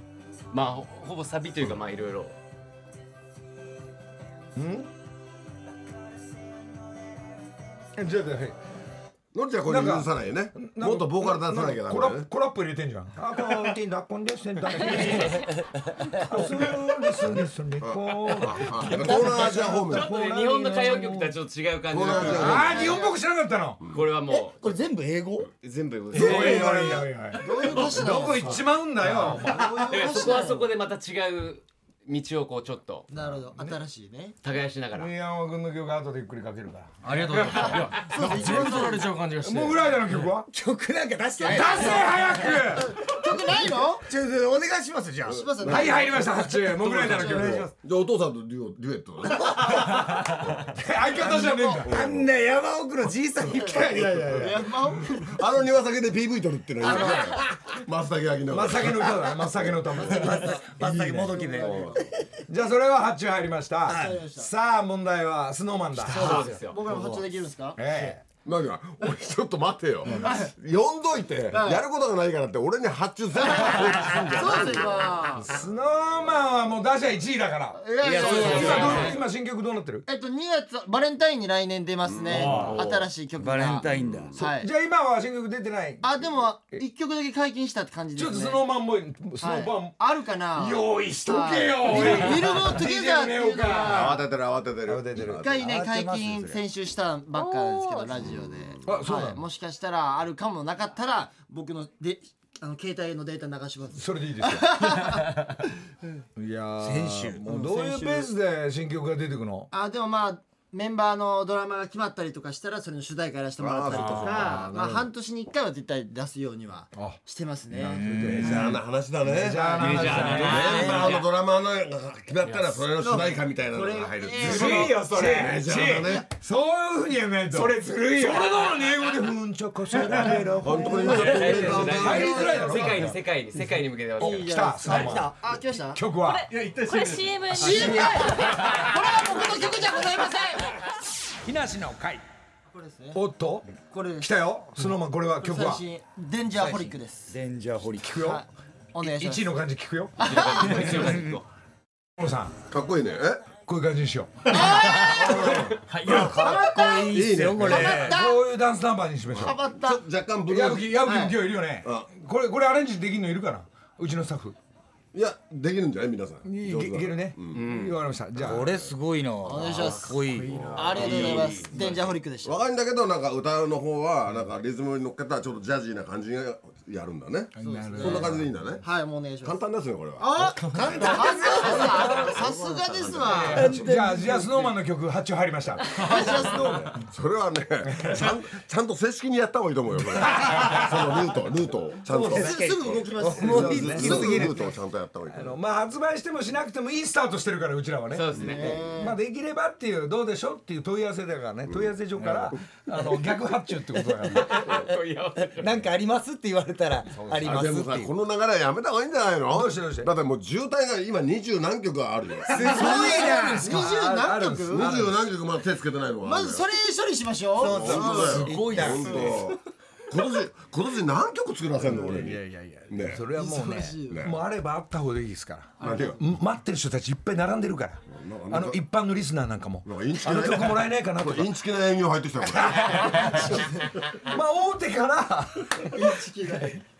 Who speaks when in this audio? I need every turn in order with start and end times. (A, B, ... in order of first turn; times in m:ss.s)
0:00.5-0:02.3 A
0:04.6-0:04.9 B
0:08.0-0:08.6 B
0:09.3-0:12.3 C
0:09.7-0:15.6 B
0:16.1-0:21.4 B
0:17.8-0:20.1 C
0:19.9-0:22.9 A
0:21.9-0:23.0 C
0:22.2-0:23.8 B
0:22.2-0:23.2 D
0:23.9-0:24.8 A
0:24.3-0:25.5 E
0:25.6-0:28.6 A
0:26.1-0:29.9 B
0:26.1-0:27.0 E
0:27.4-0:28.7 D
0:29.2-0:30.7 D
0:29.3-0:33.1 A
0:33.1-0:34.4 D
0:34.4-0:35.1 A
0:34.9-0:37.7 B
0:37.0-0:40.3 F
0:37.6-0:39.1 D
0:37.6-0:37.9 A
0:39.4-0:40.5 B
0:40.5-0:42.6 E
0:41.4-0:42.0 D
0:41.4-0:43.1 B
0:42.9-0:44.0 D
0:44.1-0:45.6 E
0:45.3-0:46.4 D
0:45.3-0:49.8 C
0:45.6-0:47.7 B
0:46.6-0:47.7 E
0:47.1-0:47.5 D
0:49.2-0:50.4 E
0:50.1-0:52.0 B
0:51.2-0:51.9 D
0:51.8-0:54.1 E
0:51.8-0:52.3 C
0:53.4-0:55.4 D
0:53.5-0:54.9 B
0:55.2-1:00.0 C
0:56.9-0:57.2 B
0:58.5-1:01.4 B
1:00.0-1:02.0 E
1:00.0-1:02.1 D
1:01.5-1:02.0 C
1:02.5-1:06.4 B
1:03.8-1:04.2 E
1:03.9-1:04.5 D
1:06.0-1:07.3 E
1:06.1-1:08.0 D
1:06.1-1:06.8 A
1:07.7-1:08.2 B
1:08.4-1:15.1 C
1:10.1-1:10.5 D
1:11.5-1:11.8 D
1:13.5-1:15.6 D
1:15.4-1:20.1 B
1:17.7-1:19.2 D
1:18.0-1:19.1 E
1:18.2-1:19.2 A
1:20.1-1:24.7 D
1:22.0-1:23.1 C
1:22.5-1:22.8 E
1:23.4-1:24.4 E
1:24.1-1:24.4 C
1:24.4-1:26.1 B
1:26.0-1:28.7 D
1:28.1-1:30.0 B
1:29.4-1:34.2 D
1:30.6-1:34.2 B
1:33.8-1:35.7 C
1:34.9-1:35.4 B
1:35.4-1:45.6 D
1:35.5-1:36.6 E
1:37.3-1:38.1 G
1:38.2-1:38.8 C
1:38.8-1:39.4 B
1:43.9-1:45.0 B
1:46.4-1:49.7 B
1:46.8-1:47.4 E
1:47.4-1:48.3 D
1:49.7-1:58.2 D
1:53.6-1:54.9 C
1:54.0-1:55.0 B
1:56.9-1:57.2 B
1:57.7-2:00.8 B
1:57.8-1:58.7 E
1:58.2-2:06.3 C
1:59.7-2:01.3 A
1:59.9-2:01.1 D
2:00.2-2:00.7 E
2:03.0-2:05.2 D
2:04.4-2:13.2 B
2:04.5-2:05.5 A
2:07.5-2:08.3 E
2:08.1-2:08.5 A
2:10.1-2:11.4 E
2:10.6-2:12.5 C
2:10.9-2:13.1 D
2:11.0-2:14.9 A
2:14.2-2:15.4 B
2:14.2-2:16.1 D
2:14.9-2:15.2 E
2:15.9-2:16.5 B
2:16.2-2:18.7 G
2:17.5-2:20.8 D
2:17.6-2:18.2 E
2:17.8-2:18.2 B
2:21.4-2:22.2 B
2:22.7-2:23.2 D
2:23.1-2:25.8 B
2:23.8-2:24.4 D
2:25.4-2:27.3 D
2:26.6-2:28.2 E
2:28.0-2:28.4 B
2:28.2-2:29.6 D
2:29.0-2:31.2 B
2:30.2-2:31.1 D
2:30.2-2:31.4 A
2:30.8-2:31.4 E
2:32.2-2:32.6 B
2:32.7-2:33.6 C
2:33.5-2:35.8 B
2:34.5-2:38.4 D
2:34.9-2:38.2 E
2:35.9-2:36.3 F
2:37.0-2:38.1 C
2:37.9-2:39.6 B
2:39.3-2:41.1 C
2:39.4-2:40.0 D
2:40.5-2:44.6 B
2:41.0-2:41.4 D
2:41.8-2:42.1 C
2:45.1-2:48.9 C
2:46.4-2:48.9 B
2:47.5-2:47.9 A
2:48.4-2:51.7 E
2:49.4-2:52.6 D
2:50.1-2:51.7 A
2:50.5-2:51.5 C
2:52.4-2:58.8 C
2:57.6-2:58.5 B
2:57.6-2:59.6 D
2:59.4-3:03.6 C
3:00.2-3:03.8 D
3:00.9-3:02.9 E
3:03.3-3:06.7 B
3:03.5-3:04.7 E
3:05.9-3:06.9 D
3:06.4-3:15.6 C
3:07.9-3:08.3 B
3:10.3-3:10.9 B
3:12.1-3:14.7 E
3:12.1-3:14.4 D
3:13.2-3:14.7 B
3:15.3-3:24.7 B
3:18.1-3:18.8 A
3:18.4-3:19.2 D
3:21.7-3:22.0 C
3:22.2-3:22.9 E
3:23.9-3:24.7 E
3:24.3-3:25.9 A
3:25.5-3:28.1 E
3:27.2-3:27.6 B
3:27.4-3:33.1 C
3:29.5-3:30.1 B
3:32.5-3:33.9 E
3:32.6-3:34.9 D
3:32.6-3:35.2 B
3:34.7-3:36.7 C
3:36.2-3:38.8 D
3:37.6-3:39.6 E
3:37.6-3:43.3 C
3:37.9-3:38.9 B
3:41.9-3:51.5 B
3:43.3-3:44.3 D
3:44.1-3:44.4 C
3:45.8-3:46.3 C
3:48.1-3:48.8 C
3:49.8-3:53.4 C
3:52.6-3:56.8 B
3:55.9-3:56.8 D